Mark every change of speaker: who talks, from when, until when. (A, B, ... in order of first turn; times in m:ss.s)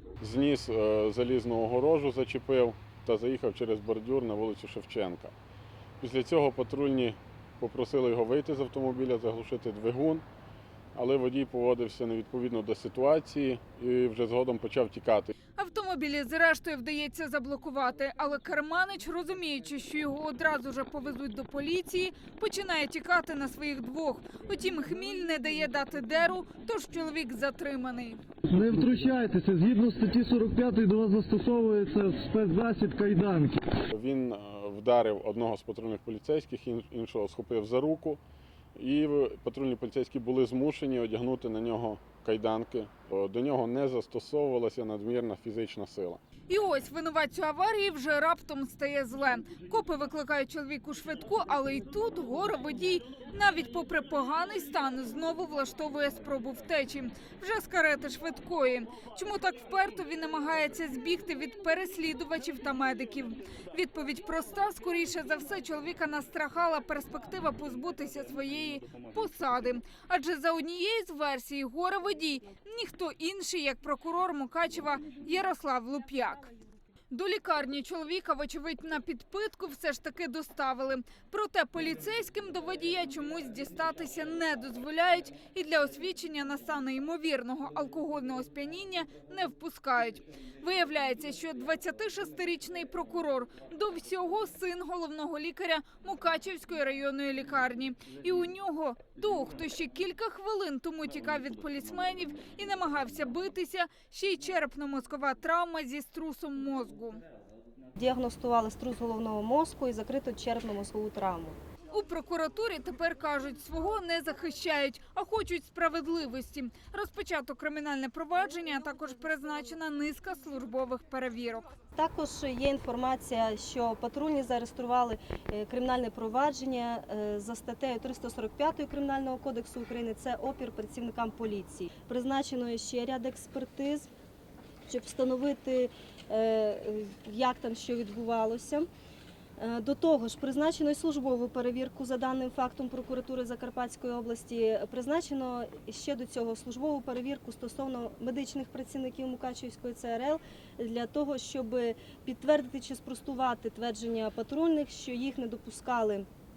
0:00.2-0:05.3 A
0:06.0-0:10.2 A
0:10.9-0:15.3 A
0:15.6-0:28.2 B
0:28.5-0:33.6 C
0:33.9-0:38.2 A
0:38.8-0:46.2 A
0:46.5-1:16.5 B
1:17.1-1:47.2 B
1:48.0-1:51.6 D
1:51.9-2:01.7 B
2:02.0-2:14.1 D
2:14.9-2:18.9 D
2:19.6-2:36.3 D